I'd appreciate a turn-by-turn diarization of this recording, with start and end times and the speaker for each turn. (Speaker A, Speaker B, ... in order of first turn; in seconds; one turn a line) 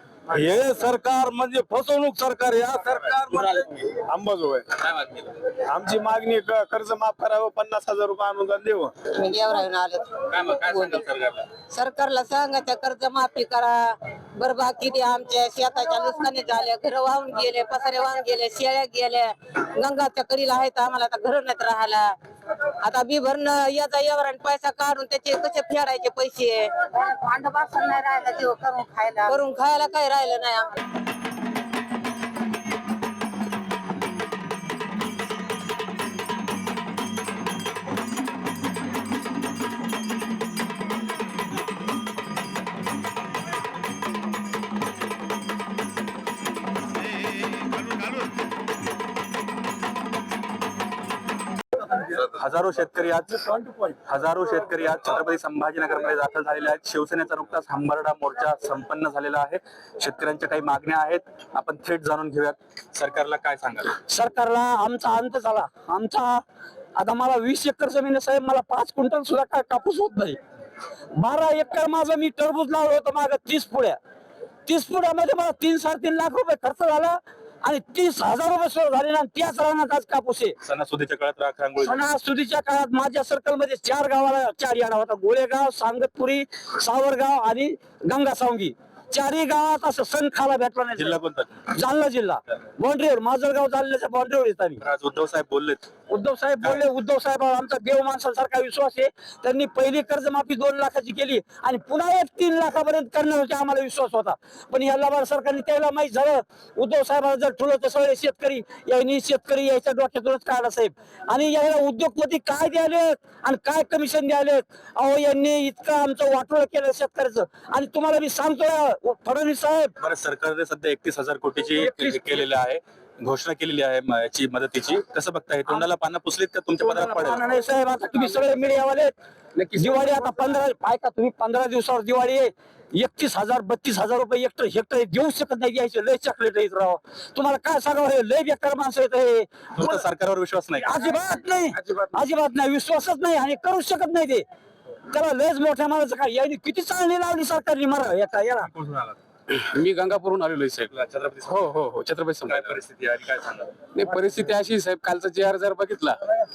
Speaker A: 0.3-3.6
Speaker B: 4.0-4.7
Speaker C: 4.8-5.4
Speaker B: 5.7-8.9
Speaker D: 9.1-11.0
Speaker C: 10.3-11.5
Speaker D: 11.6-22.2
Speaker D: 22.8-30.8
Speaker C: 52.0-63.9
Speaker E: 64.1-66.4
Speaker E: 67.0-70.4
Speaker E: 71.2-74.0
Speaker E: 74.7-80.6
Speaker C: 80.6-82.0
Speaker E: 81.8-91.2
Speaker C: 91.0-91.5
Speaker E: 91.7-94.8
Speaker C: 94.8-95.9
Speaker E: 96.1-119.9
Speaker C: 120.0-127.4
Speaker E: 126.8-129.1
Speaker F: 129.6-130.4
Speaker E: 129.8-140.0
Speaker C: 139.8-141.1
Speaker E: 140.8-144.4
Speaker F: 141.8-142.1
Speaker E: 145.1-148.7
Speaker C: 148.8-149.1
Speaker F: 149.5-150.9
Speaker C: 150.9-151.7
Speaker F: 151.5-152.8
Speaker C: 152.5-153.8
Speaker F: 153.9-156.2